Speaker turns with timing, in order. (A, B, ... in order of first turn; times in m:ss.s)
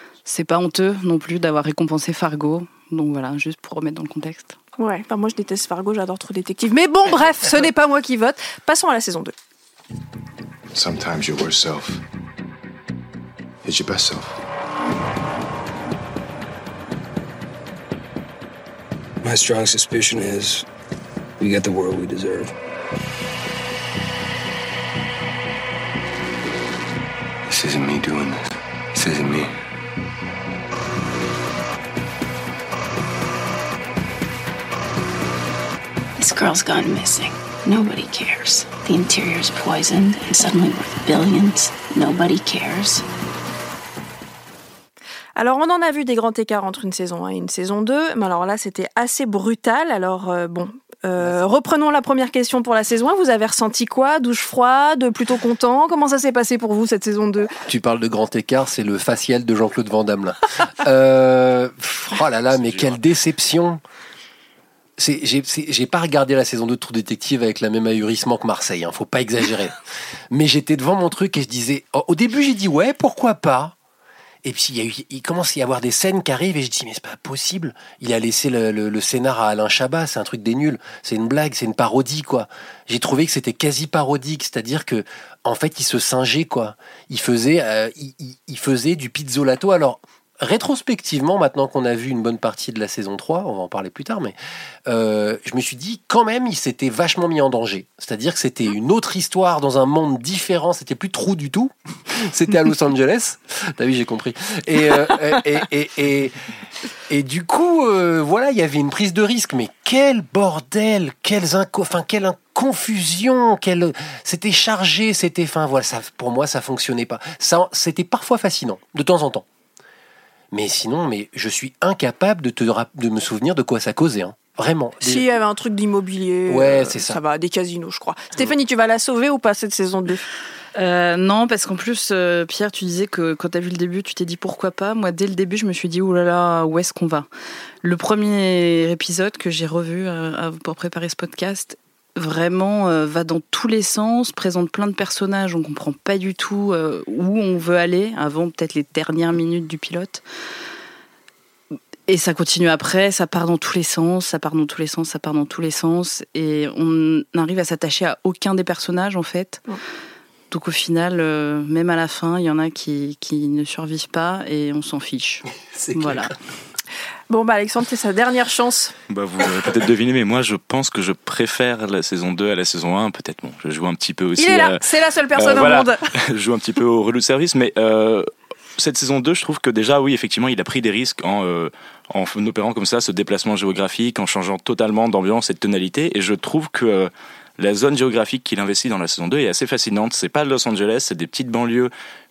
0:00.2-0:04.6 A
0:04.8-0:09.3 B
0:10.7-0:12.0 C
0:13.6-0:14.4 C
0:19.2-0:20.6 D
0:21.4-0:22.5 D
0:27.5-0:29.5 C
0:36.2-0:43.0 E
0:45.4-0:57.5 B
0:57.6-1:03.8 F
1:02.5-1:03.0 G
1:05.0-1:09.8 F
1:10.3-1:13.7 F
1:14.4-1:46.3 F
1:47.1-1:59.4 F
2:00.5-2:05.2 F
2:05.0-2:10.2 B
2:06.5-2:07.2 F
2:10.7-2:17.3 A
2:17.8-2:30.2 A
2:32.1-2:39.6 A
2:40.5-2:46.3 A
2:45.7-2:46.3 F
2:47.3-2:48.9 B
2:49.1-3:11.9 G
2:54.4-2:56.0 B